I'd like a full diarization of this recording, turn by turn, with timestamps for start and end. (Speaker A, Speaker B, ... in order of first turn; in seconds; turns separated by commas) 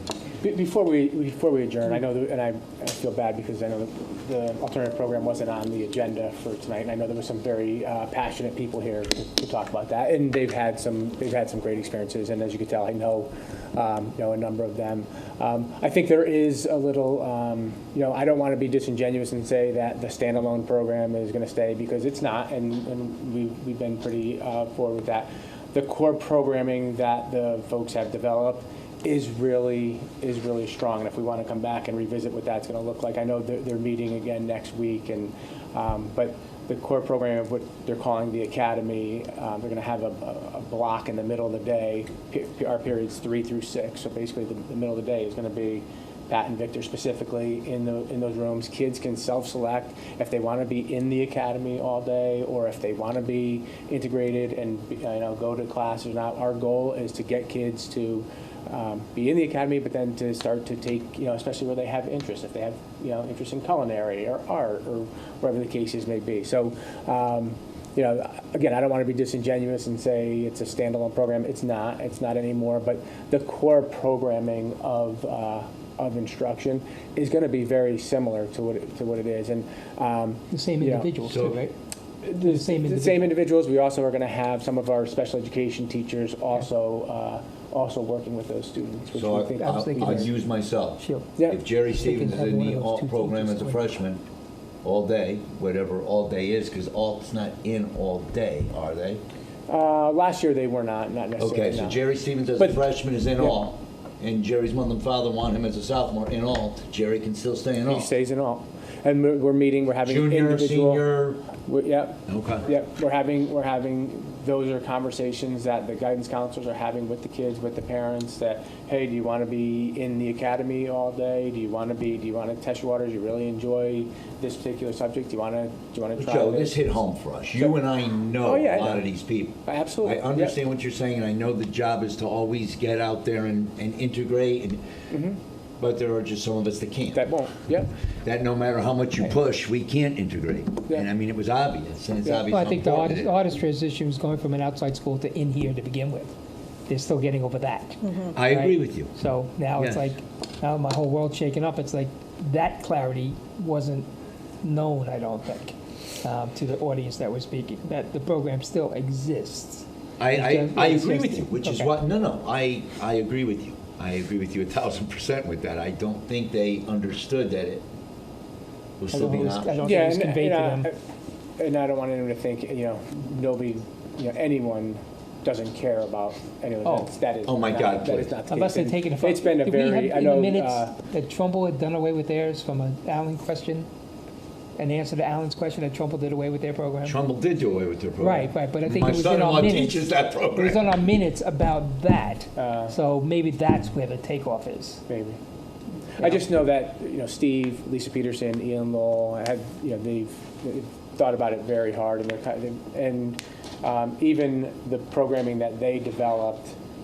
Speaker A: 0.4-81.3, Speaker B: 80.5-81.8, Speaker C: 81.2-81.6, Speaker A: 82.2-90.2, Speaker B: 82.4-83.3, Speaker C: 89.2-94.2, Speaker B: 89.6-90.4, Speaker B: 90.9-93.9, Speaker A: 91.4-91.6, Speaker C: 94.8-99.2, Speaker A: 99.7-102.0, Speaker C: 101.4-108.1, Speaker A: 102.6-103.6, Speaker A: 107.8-127.8, Speaker C: 110.0-111.5, Speaker C: 112.3-112.7, Speaker C: 126.2-134.8, Speaker A: 128.4-129.1, Speaker A: 129.7-130.6, Speaker A: 135.1-135.4, Speaker C: 135.8-137.3, Speaker A: 137.1-137.9, Speaker C: 138.2-143.4, Speaker B: 142.3-146.3, Speaker B: 146.9-154.1, Speaker C: 148.3-149.1, Speaker C: 149.8-150.2, Speaker B: 154.6-162.0, Speaker C: 160.2-167.8, Speaker C: 169.0-169.8, Speaker B: 169.1-170.9, Speaker A: 169.8-171.0, Speaker A: 171.6-180.9, Speaker B: 176.8-177.1, Speaker C: 177.4-178.4, Speaker B: 178.5-183.9, Speaker B: 184.8-187.2, Speaker C: 187.1-190.8, Speaker B: 188.2-195.0, Speaker A: 192.6-192.9, Speaker A: 195.1-195.4, Speaker A: 196.2-206.8